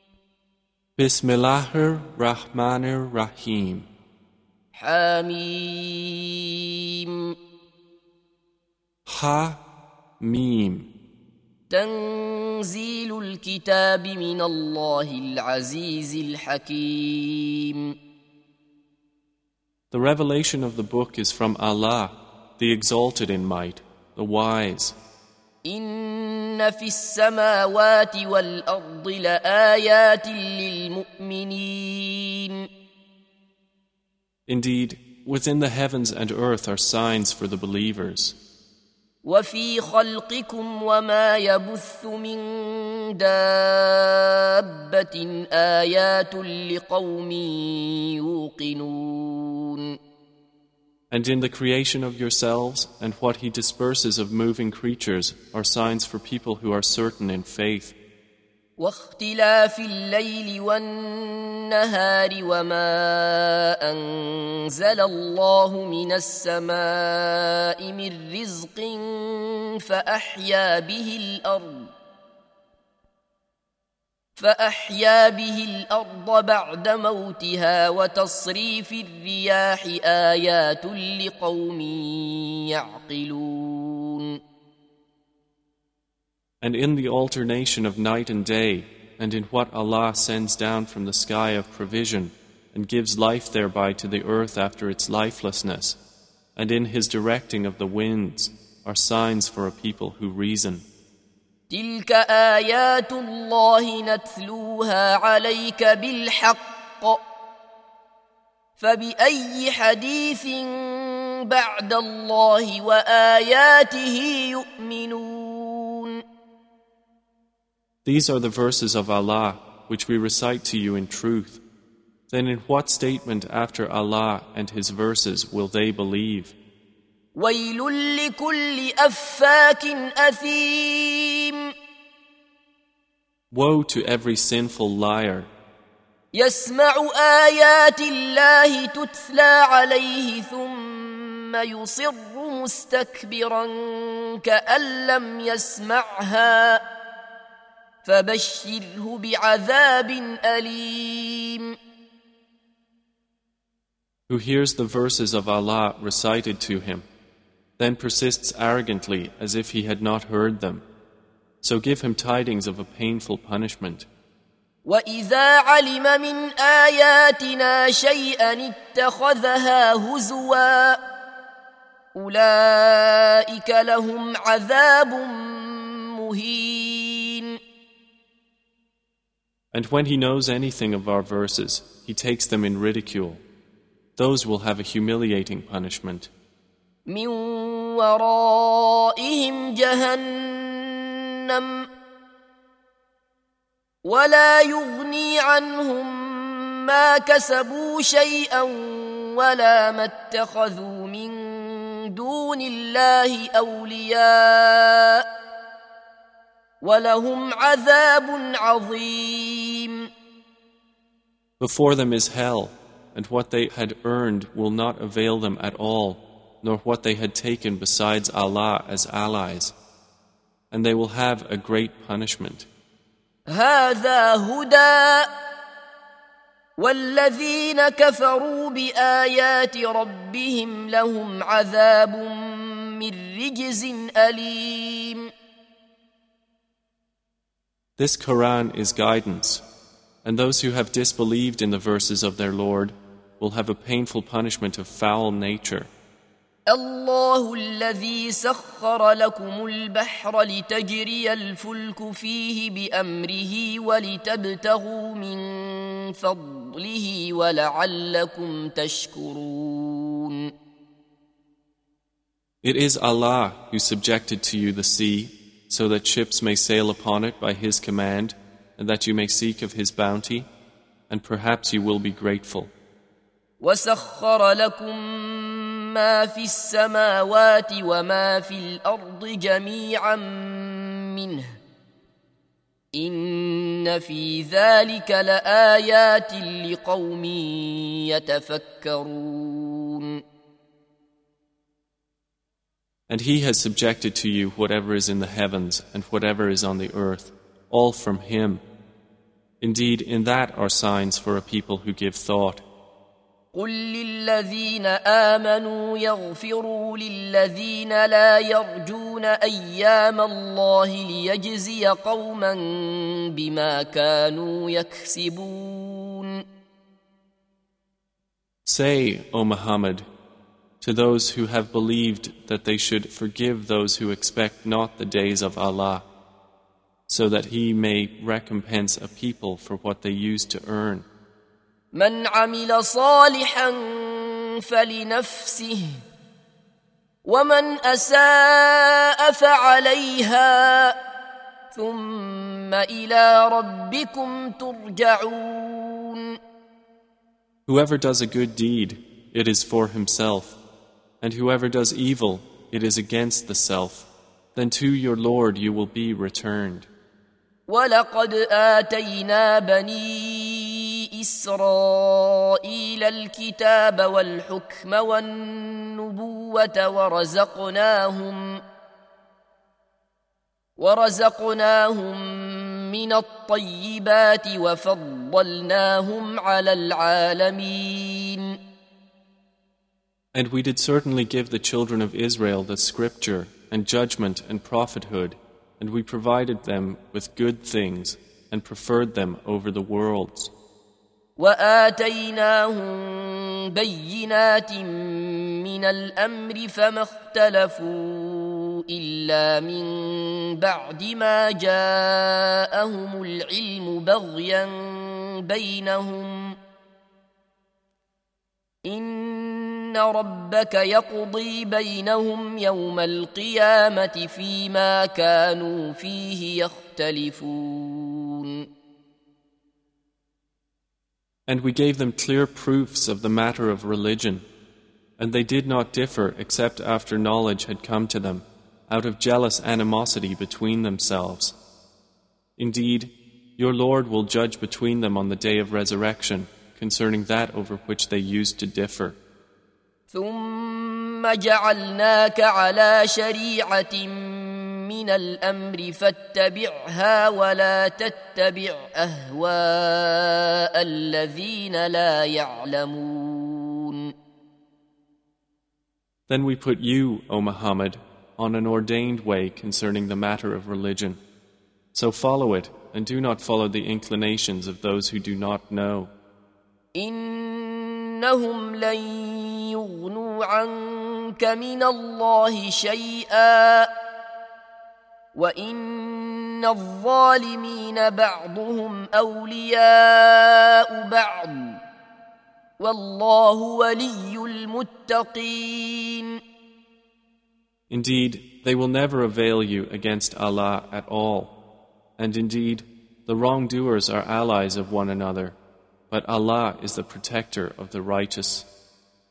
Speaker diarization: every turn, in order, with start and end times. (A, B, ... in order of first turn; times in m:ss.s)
0:01.0-0:03.9 A
0:04.7-0:07.3 B
0:09.0-0:09.6 A
0:10.2-0:10.9 A
0:11.7-0:17.9 B
0:19.9-0:25.0 A
0:25.6-0:32.6 B
0:34.5-0:38.4 A
0:39.2-0:49.9 B
0:51.1-0:58.0 A
0:58.8-1:11.9 B
1:14.4-1:24.4 B
1:26.6-1:36.0 A
1:36.6-1:40.8 A
1:41.7-1:47.2 B
1:48.8-1:56.2 B
1:58.0-2:01.6 A
2:02.3-2:06.6 A
2:07.3-2:11.6 B
2:13.5-2:15.5 A
2:16.3-2:26.8 B
2:28.0-2:31.7 B
2:34.3-2:37.1 A
2:37.8-2:40.8 A
2:41.6-2:44.1 A
2:44.8-2:51.0 B
2:52.1-2:57.6 B
2:59.7-3:03.4 A
3:04.2-3:06.3 A
3:07.1-3:11.9 B
3:14.0-3:25.2 B
3:26.8-3:30.1 B
3:31.6-3:39.7 A
3:40.7-3:42.7 A
3:43.5-3:45.3 B
3:46.8-3:55.3 B
3:58.0-3:59.6 A
4:00.2-4:05.9 A
4:06.7-4:20.5 B
4:22.6-4:30.5 A
4:31.1-4:32.7 A
4:33.6-4:41.4 B
4:42.9-4:50.2 B
4:53.1-4:58.6 A
4:59.6-5:02.6 A
5:03.5-5:16.4 B
5:18.6-5:20.0 A
5:20.8-5:26.0 A
5:27.1-5:31.1 A
5:31.9-5:35.9 B
5:37.2-5:41.0 B
5:41.7-5:46.4 B
5:47.7-5:50.6 A
5:51.2-5:56.9 A
5:57.7-6:08.6 B
6:10.8-6:18.6 B
6:20.3-6:30.5 A
6:31.4-6:46.6 B
6:48.8-6:58.6 B
7:01.5-7:04.4 A
7:05.2-7:11.5 A
7:12.6-7:19.2 A
7:20.1-7:34.1 B
7:36.3-7:41.2 A
7:41.9-7:46.1 A
7:46.9-7:53.9 B
7:55.3-8:01.8 B
8:02.8-8:06.4 B
8:07.9-8:11.6 A
8:12.2-8:15.6 A
8:16.1-8:18.7 A